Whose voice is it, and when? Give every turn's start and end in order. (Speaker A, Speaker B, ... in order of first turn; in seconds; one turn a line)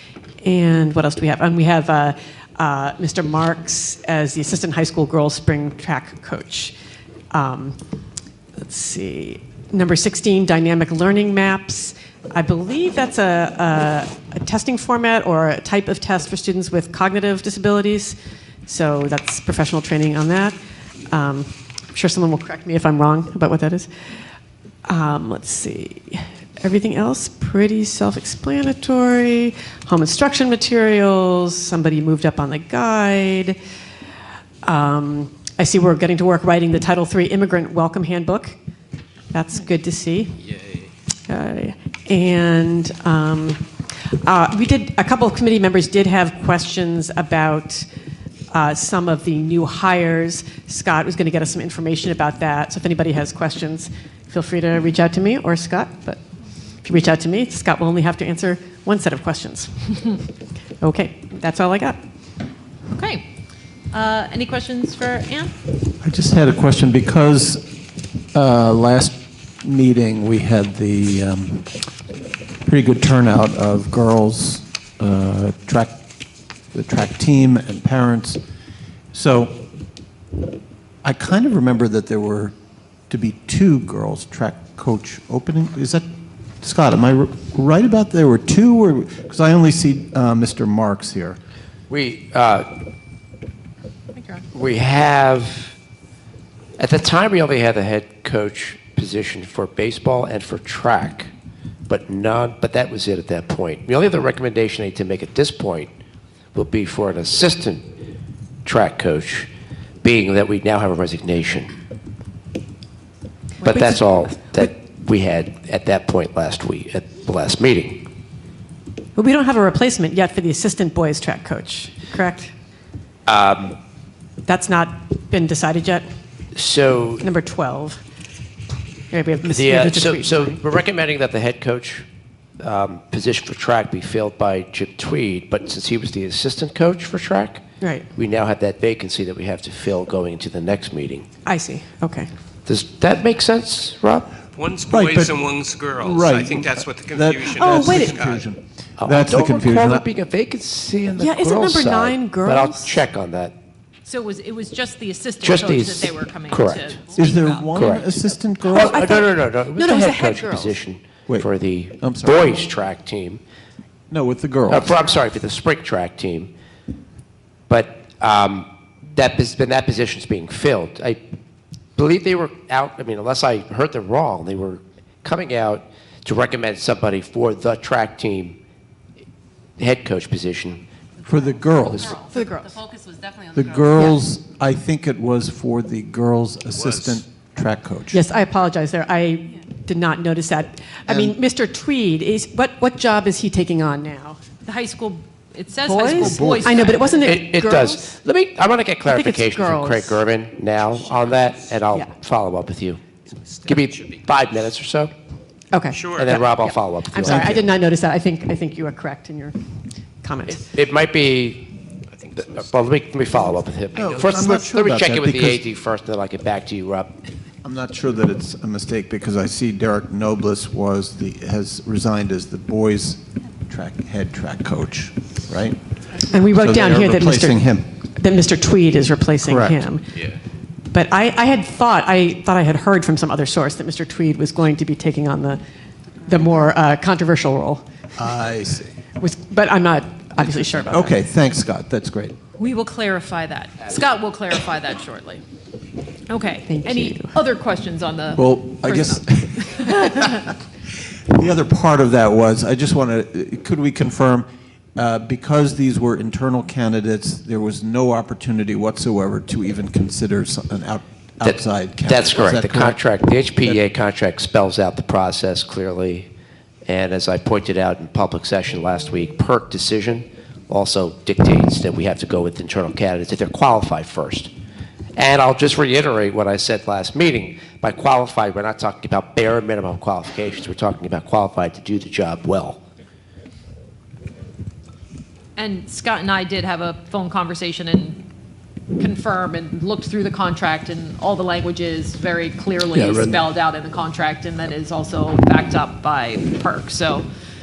Speaker A: 0.4-6.8
Speaker A: 7.3-7.8
Speaker A: 8.6-20.6
Speaker A: 21.1-23.9
Speaker A: 24.9-33.6
Speaker A: 34.6-38.5
Speaker A: 39.3-40.4
Speaker A: 41.3-47.9
Speaker A: 48.5-56.2
Speaker A: 56.8-60.2
Speaker A: 60.8-62.0
Speaker B: 62.9-63.3
Speaker B: 63.9-65.6
Speaker C: 66.0-67.7
Speaker C: 68.3-71.8
Speaker C: 72.6-75.9
Speaker C: 76.7-78.4
Speaker C: 79.1-79.6
Speaker C: 81.0-82.5
Speaker C: 83.1-86.1
Speaker C: 86.6-91.4
Speaker D: 91.9-92.7
Speaker B: 94.2-94.4
Speaker D: 94.5-95.8
Speaker D: 96.8-101.3
Speaker D: 101.9-105.9
Speaker D: 106.5-107.8
Speaker D: 108.7-109.5
Speaker D: 110.0-111.7
Speaker A: 113.6-114.0
Speaker D: 113.6-118.0
Speaker A: 119.2-122.5
Speaker D: 123.3-123.8
Speaker A: 124.5-126.1
Speaker D: 126.5-127.2
Speaker A: 127.2-128.0
Speaker A: 129.1-130.6
Speaker D: 129.5-132.1
Speaker D: 132.6-137.6
Speaker A: 137.8-138.1
Speaker D: 138.2-141.3
Speaker A: 141.5-142.3
Speaker D: 142.7-144.4
Speaker E: 144.5-148.4
Speaker C: 144.9-150.1
Speaker A: 147.6-148.2
Speaker D: 149.0-153.6
Speaker A: 151.2-153.0
Speaker B: 154.1-157.9
Speaker D: 155.4-157.0
Speaker C: 157.2-159.1
Speaker D: 157.7-158.1
Speaker A: 158.7-160.8
Speaker D: 158.7-163.4
Speaker C: 161.3-162.7
Speaker C: 164.1-165.0
Speaker D: 164.7-166.5
Speaker D: 167.7-171.2
Speaker D: 172.0-178.6
Speaker D: 179.8-180.8
Speaker C: 181.3-182.2
Speaker B: 181.3-184.1
Speaker A: 182.3-182.8
Speaker C: 183.5-188.2
Speaker E: 186.8-187.1
Speaker A: 188.1-194.4
Speaker C: 191.1-191.3
Speaker B: 194.7-197.3
Speaker A: 195.8-198.2
Speaker D: 197.2-203.0
Speaker A: 199.1-200.2
Speaker E: 201.2-201.5
Speaker E: 203.5-204.7
Speaker D: 203.7-205.1
Speaker A: 205.7-209.6
Speaker E: 205.9-206.3
Speaker D: 206.2-207.7
Speaker A: 210.2-210.7
Speaker D: 210.5-211.7
Speaker E: 212.2-212.8
Speaker D: 212.4-217.1
Speaker C: 213.9-215.6
Speaker E: 214.0-214.3
Speaker C: 217.6-225.8
Speaker A: 226.2-227.6
Speaker C: 226.5-227.9
Speaker A: 228.2-230.2
Speaker C: 229.4-229.8
Speaker A: 230.9-235.6
Speaker A: 236.2-237.9
Speaker C: 238.2-238.9
Speaker A: 239.2-241.2
Speaker C: 240.4-242.4
Speaker B: 242.6-245.4
Speaker B: 246.3-250.3
Speaker A: 246.7-247.3
Speaker C: 248.3-250.5
Speaker C: 251.3-263.8
Speaker D: 261.4-266.3
Speaker D: 266.9-274.5
Speaker D: 275.2-282.8
Speaker B: 285.6-288.2
Speaker B: 289.0-297.3
Speaker D: 292.9-293.4